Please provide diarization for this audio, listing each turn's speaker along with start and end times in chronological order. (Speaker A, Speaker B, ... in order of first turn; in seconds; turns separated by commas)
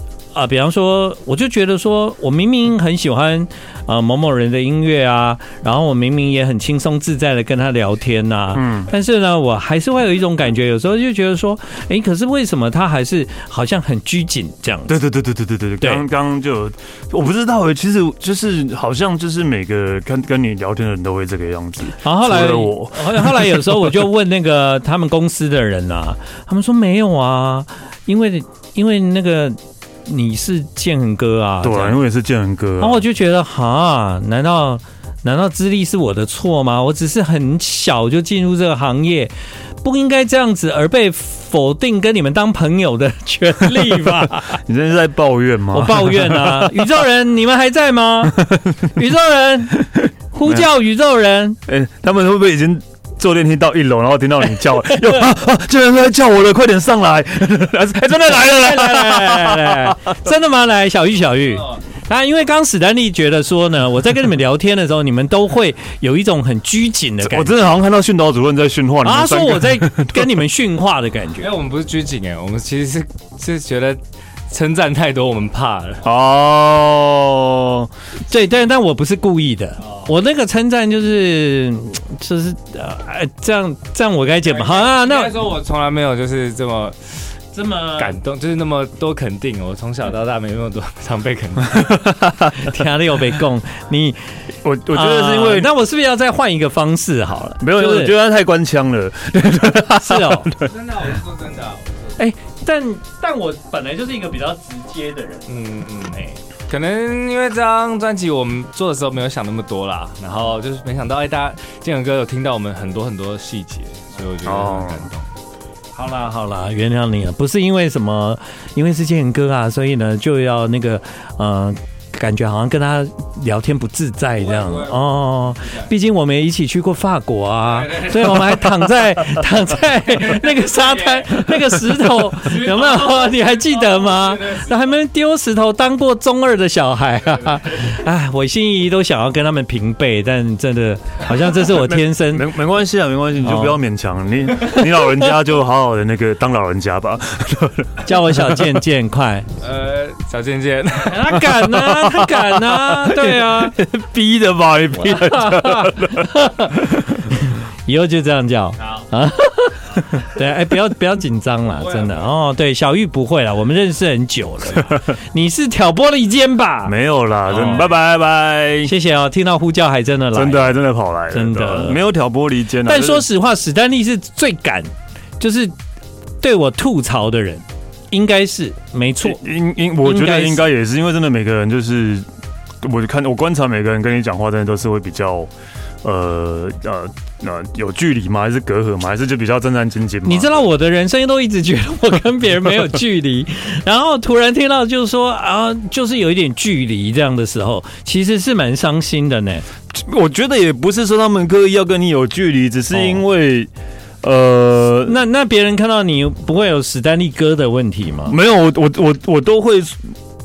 Speaker A: 0.3-15.0, Speaker B: 8.5-8.9, Speaker B: 14.9-24.0, Speaker A: 22.0-32.0, Speaker B: 31.6-33.0, Speaker A: 32.8-44.6, Speaker B: 43.7-47.0, Speaker A: 45.7-51.6, Speaker B: 48.3-48.9, Speaker B: 49.8-50.7, Speaker B: 51.7-60.0, Speaker A: 58.3-67.5, Speaker B: 67.2-70.3, Speaker A: 69.0-71.5, Speaker C: 71.4-76.0, Speaker B: 76.0-77.9, Speaker A: 78.3-85.4, Speaker C: 84.5-87.0, Speaker A: 87.5-88.2, Speaker C: 88.0-91.9, Speaker B: 91.7-92.8, Speaker A: 92.6-94.3, Speaker B: 94.6-95.7, Speaker A: 94.9-98.1, Speaker B: 97.6-100.7, Speaker A: 100.0-100.5, Speaker C: 100.7-101.9, Speaker A: 102.2-105.5, Speaker C: 105.5-115.3, Speaker B: 114.4-115.1, Speaker A: 116.0-142.5, Speaker C: 124.6-124.9, Speaker C: 130.4-131.2, Speaker C: 132.5-134.6, Speaker B: 141.7-148.8, Speaker A: 143.4-143.8, Speaker A: 144.7-145.2, Speaker A: 148.0-149.5, Speaker C: 149.6-151.2, Speaker A: 151.0-153.8, Speaker B: 151.3-156.3, Speaker A: 155.0-166.9, Speaker B: 156.8-157.2, Speaker B: 166.8-168.9, Speaker A: 167.5-167.8, Speaker A: 168.8-170.8, Speaker B: 170.3-173.2, Speaker A: 171.3-172.0, Speaker A: 172.8-175.7, Speaker A: 176.4-179.4, Speaker B: 179.2-182.2, Speaker A: 180.0-180.6, Speaker B: 182.8-185.5, Speaker B: 186.0-190.7, Speaker A: 190.2-199.7, Speaker B: 199.9-203.7, Speaker A: 202.9-203.2, Speaker B: 204.2-205.1, Speaker A: 205.0-208.3, Speaker B: 208.3-210.1